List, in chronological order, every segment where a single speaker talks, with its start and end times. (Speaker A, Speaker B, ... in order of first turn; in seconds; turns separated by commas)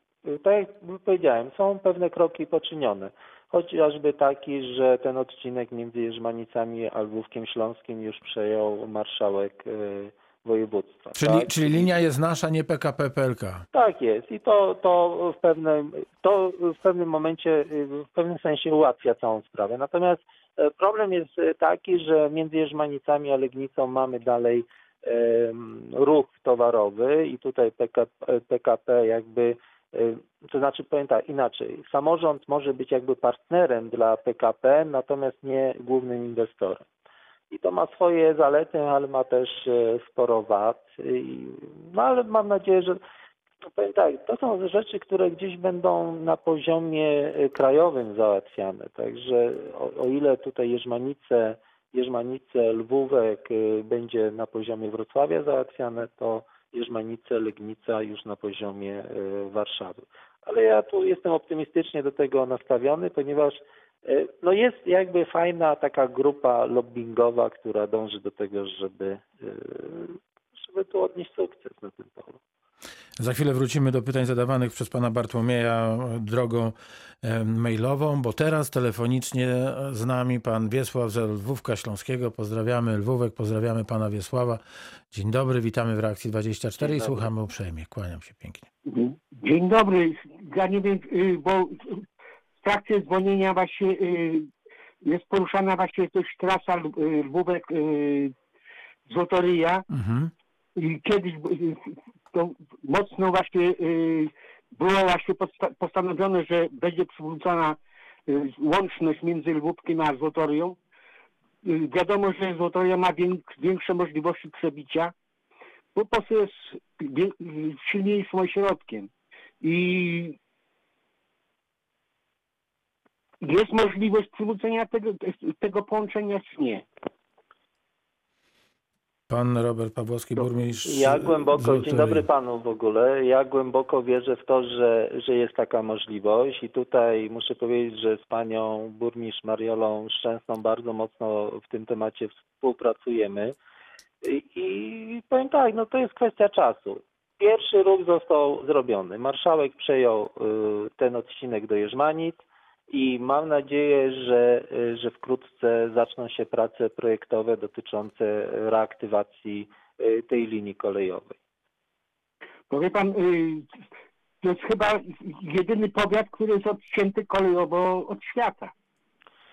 Speaker A: 0.2-11.9, Speaker B: 11.2-13.7, Speaker A: 13.7-36.9, Speaker A: 37.5-43.0, Speaker A: 43.7-72.4, Speaker B: 73.2-88.7, Speaker A: 86.8-87.2, Speaker C: 88.8-92.0, Speaker C: 92.6-94.5, Speaker C: 95.0-98.3, Speaker C: 99.1-99.8, Speaker B: 99.9-100.3, Speaker C: 100.8-110.8, Speaker C: 111.6-115.1, Speaker C: 115.9-119.1, Speaker C: 119.6-120.4, Speaker C: 123.4-126.8, Speaker B: 129.3-132.2, Speaker A: 130.8-143.5, Speaker A: 144.2-161.4, Speaker C: 162.7-163.7, Speaker C: 164.4-168.7